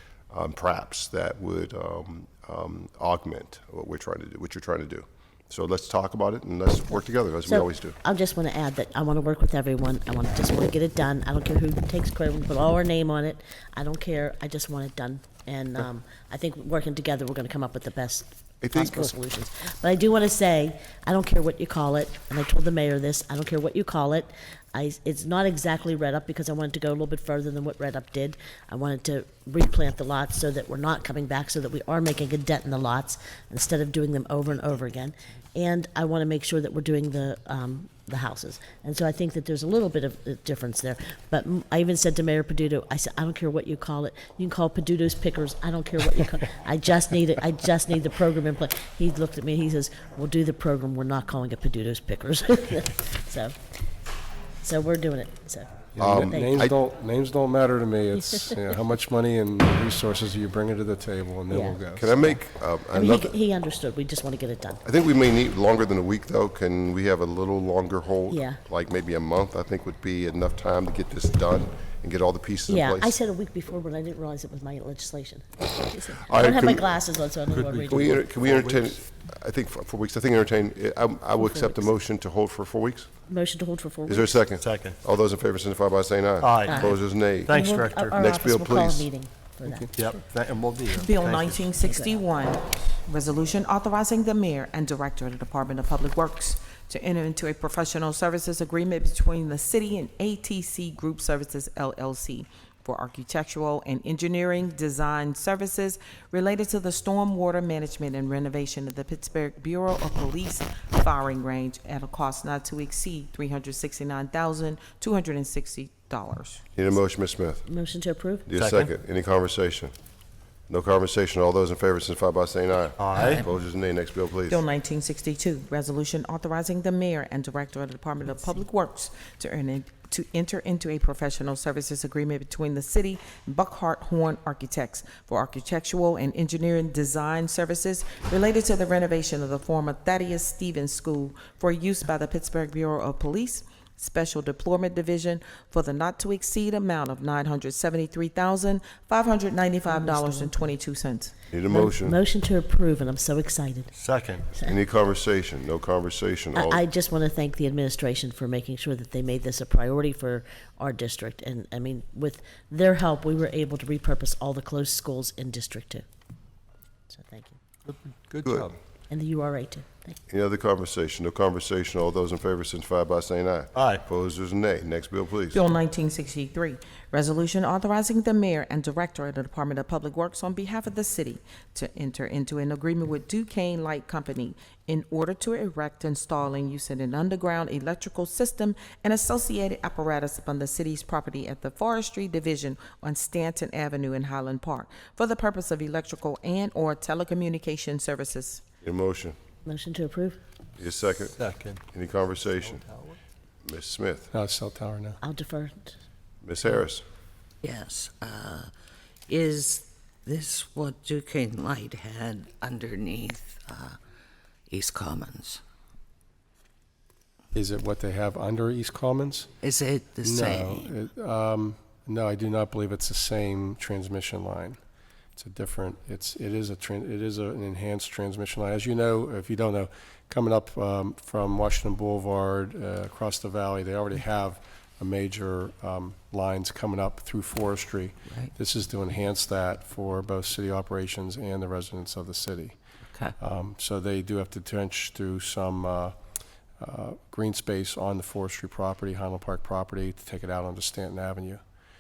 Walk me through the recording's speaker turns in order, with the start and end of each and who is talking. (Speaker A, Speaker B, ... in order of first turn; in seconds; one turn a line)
Speaker A: 0.3-8.0
Speaker B: 7.5-53.6
Speaker A: 18.6-19.1
Speaker B: 54.6-56.7
Speaker C: 55.9-62.4
Speaker A: 56.0-56.8
Speaker B: 58.2-58.5
Speaker B: 61.5-61.8
Speaker A: 62.0-63.4
Speaker B: 62.9-64.8
Speaker A: 64.8-73.2
Speaker B: 68.3-68.6
Speaker B: 72.7-78.2
Speaker A: 76.3-76.9
Speaker D: 77.5-79.0
Speaker A: 77.9-83.1
Speaker B: 81.4-81.9
Speaker B: 83.3-84.5
Speaker A: 84.1-87.6
Speaker D: 84.5-85.0
Speaker D: 86.4-88.2
Speaker B: 86.7-87.0
Speaker B: 87.5-89.9
Speaker A: 88.1-89.1
Speaker C: 89.7-90.0
Speaker D: 90.0-91.8
Speaker E: 90.9-116.7
Speaker B: 91.8-92.1
Speaker A: 116.8-117.7
Speaker B: 117.7-118.5
Speaker A: 118.5-119.9
Speaker D: 118.5-118.9
Speaker A: 120.7-124.6
Speaker D: 123.0-123.4
Speaker E: 124.5-151.3
Speaker B: 149.9-150.7
Speaker A: 151.5-152.2
Speaker B: 151.7-153.9
Speaker D: 153.9-154.5
Speaker A: 154.6-156.8
Speaker B: 156.5-166.1
Speaker B: 167.1-167.6
Speaker D: 167.9-168.8
Speaker A: 168.4-168.7
Speaker B: 169.1-170.2
Speaker A: 170.3-175.6
Speaker D: 173.8-174.0
Speaker E: 175.5-198.6
Speaker A: 198.8-199.4
Speaker B: 199.7-200.4
Speaker A: 200.8-202.9
Speaker D: 201.3-201.8
Speaker D: 202.6-203.2
Speaker A: 203.7-204.3
Speaker C: 204.3-205.2
Speaker B: 205.2-205.9
Speaker A: 206.4-207.0
Speaker F: 207.6-208.7
Speaker F: 209.3-214.0
Speaker F: 214.7-215.6
Speaker C: 217.5-219.5
Speaker F: 219.6-220.9
Speaker C: 220.2-224.8
Speaker C: 225.4-242.8
Speaker C: 243.4-246.2
Speaker C: 246.8-251.6